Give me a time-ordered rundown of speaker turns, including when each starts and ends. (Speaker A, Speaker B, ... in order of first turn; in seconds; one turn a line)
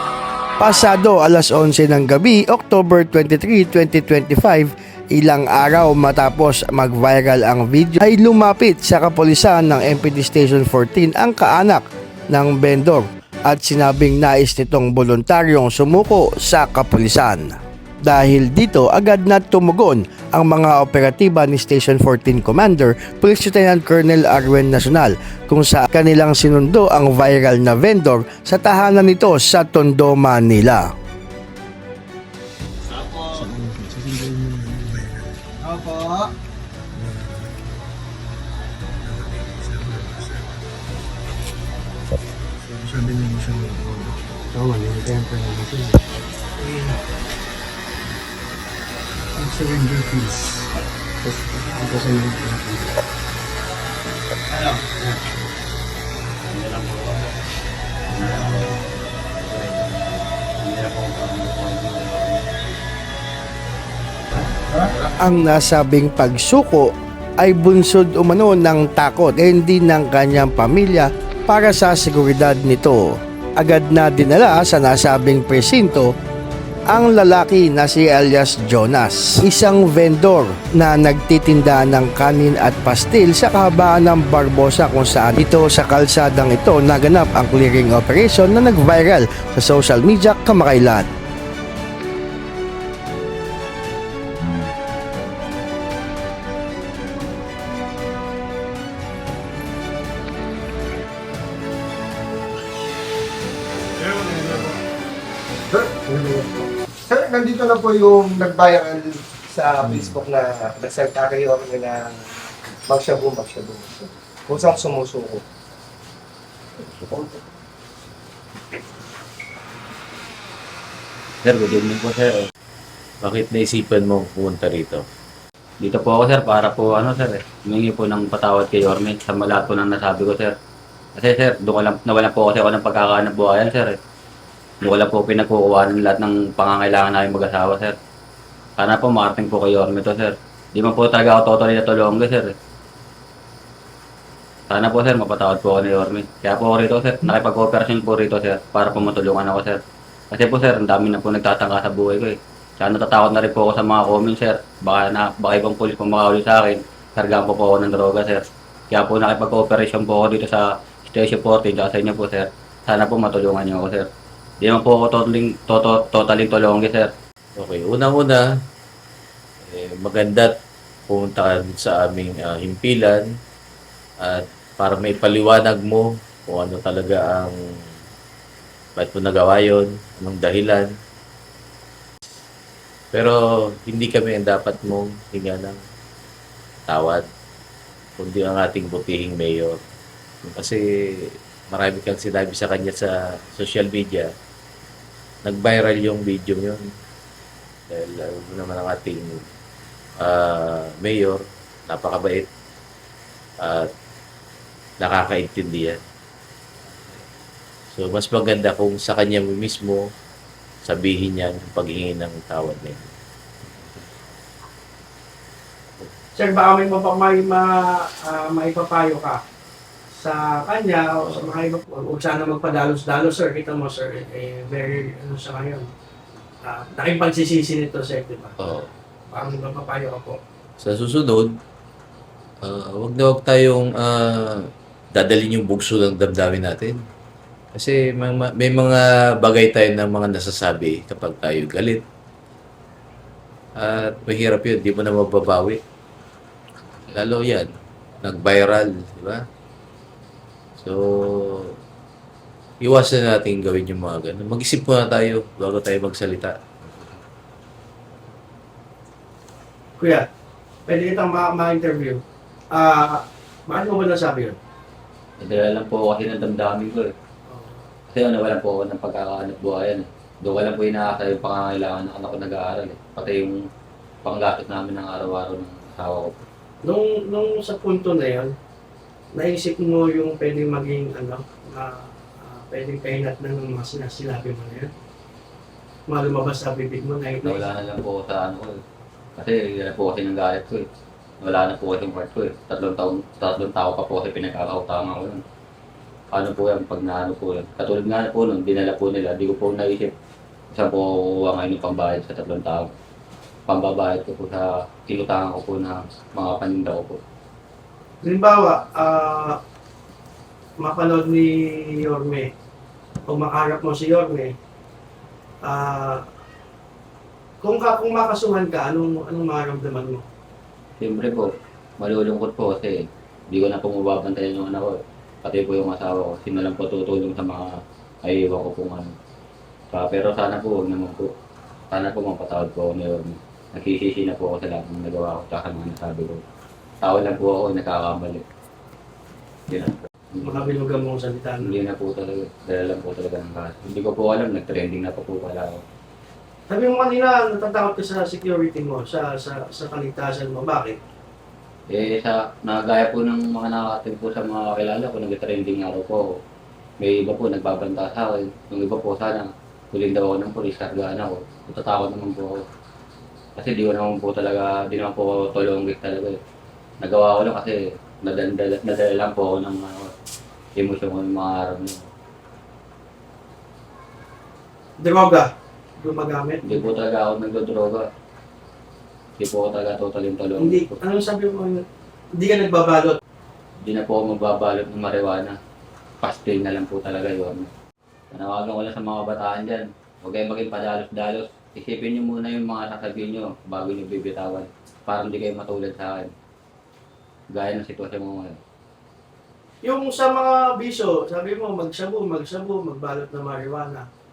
Speaker A: 0.6-30.9
Speaker B: 33.0-36.3
Speaker B: 36.9-37.6
Speaker B: 39.0-40.6
Speaker B: 42.7-46.0
Speaker B: 49.4-50.7
Speaker B: 51.8-52.9
Speaker C: 56.5-57.3
Speaker C: 58.1-58.8
Speaker C: 59.4-60.0
Speaker C: 60.6-62.4
Speaker A: 65.2-76.1
Speaker A: 76.9-91.1
Speaker D: 104.0-104.8
Speaker D: 105.7-112.1
Speaker D: 112.9-115.4
Speaker D: 117.1-117.3
Speaker C: 121.4-122.3
Speaker B: 123.2-125.1
Speaker C: 125.8-130.5
Speaker C: 131.2-134.0
Speaker C: 134.8-138.0
Speaker C: 138.8-142.5
Speaker C: 144.7-164.1
Speaker C: 164.6-167.1
Speaker B: 167.6-168.5
Speaker B: 169.6-170.6
Speaker B: 171.1-173.3
Speaker B: 174.2-177.9
Speaker B: 179.0-180.9
Speaker B: 183.1-185.8
Speaker B: 186.9-187.3
Speaker B: 188.2-189.8
Speaker B: 190.5-190.8
Speaker B: 191.7-194.3
Speaker B: 195.4-196.8
Speaker B: 197.9-199.5
Speaker B: 200.2-202.5
Speaker B: 203.6-203.9
Speaker B: 205.0-206.0
Speaker B: 207.9-210.1
Speaker B: 210.8-213.1
Speaker C: 213.7-214.1
Speaker E: 216.4-219.4
Speaker E: 220.1-225.9
Speaker B: 221.2-221.6
Speaker E: 226.6-228.6
Speaker B: 228.6-228.9
Speaker E: 229.3-230.4
Speaker B: 230.8-231.6
Speaker B: 232.6-237.0
Speaker B: 237.7-242.0
Speaker B: 243.8-245.8
Speaker B: 247.1-249.5
Speaker B: 250.8-251.8
Speaker B: 252.8-256.6
Speaker E: 260.0-260.3
Speaker E: 260.9-264.6
Speaker C: 265.4-267.1
Speaker E: 267.5-267.8
Speaker C: 268.1-273.6
Speaker C: 274.2-276.3
Speaker E: 276.8-278.5
Speaker E: 279.3-284.9
Speaker E: 286.1-287.7
Speaker C: 287.4-288.8
Speaker C: 289.4-290.9
Speaker C: 291.4-295.4
Speaker C: 296.3-300.1
Speaker C: 300.7-302.9
Speaker C: 303.7-307.2
Speaker E: 308.2-309.6
Speaker E: 310.8-312.5
Speaker E: 313.3-314.5
Speaker E: 315.6-316.2
Speaker E: 317.6-320.2
Speaker C: 321.0-323.0
Speaker C: 323.5-329.1
Speaker C: 329.9-331.3
Speaker C: 331.9-336.4
Speaker C: 337.0-338.4
Speaker C: 339.7-340.8
Speaker E: 340.4-341.7
Speaker C: 341.6-345.8
Speaker E: 346.7-351.0
Speaker C: 351.9-356.4
Speaker C: 357.0-362.6
Speaker C: 363.6-366.4
Speaker C: 367.0-370.1
Speaker C: 370.8-372.1
Speaker E: 375.0-376.8
Speaker C: 376.6-378.1
Speaker C: 379.4-380.9
Speaker E: 380.6-381.8
Speaker E: 382.4-383.2
Speaker C: 383.8-385.6
Speaker C: 386.2-387.7
Speaker C: 388.3-396.3
Speaker C: 397.5-398.6
Speaker E: 399.8-404.1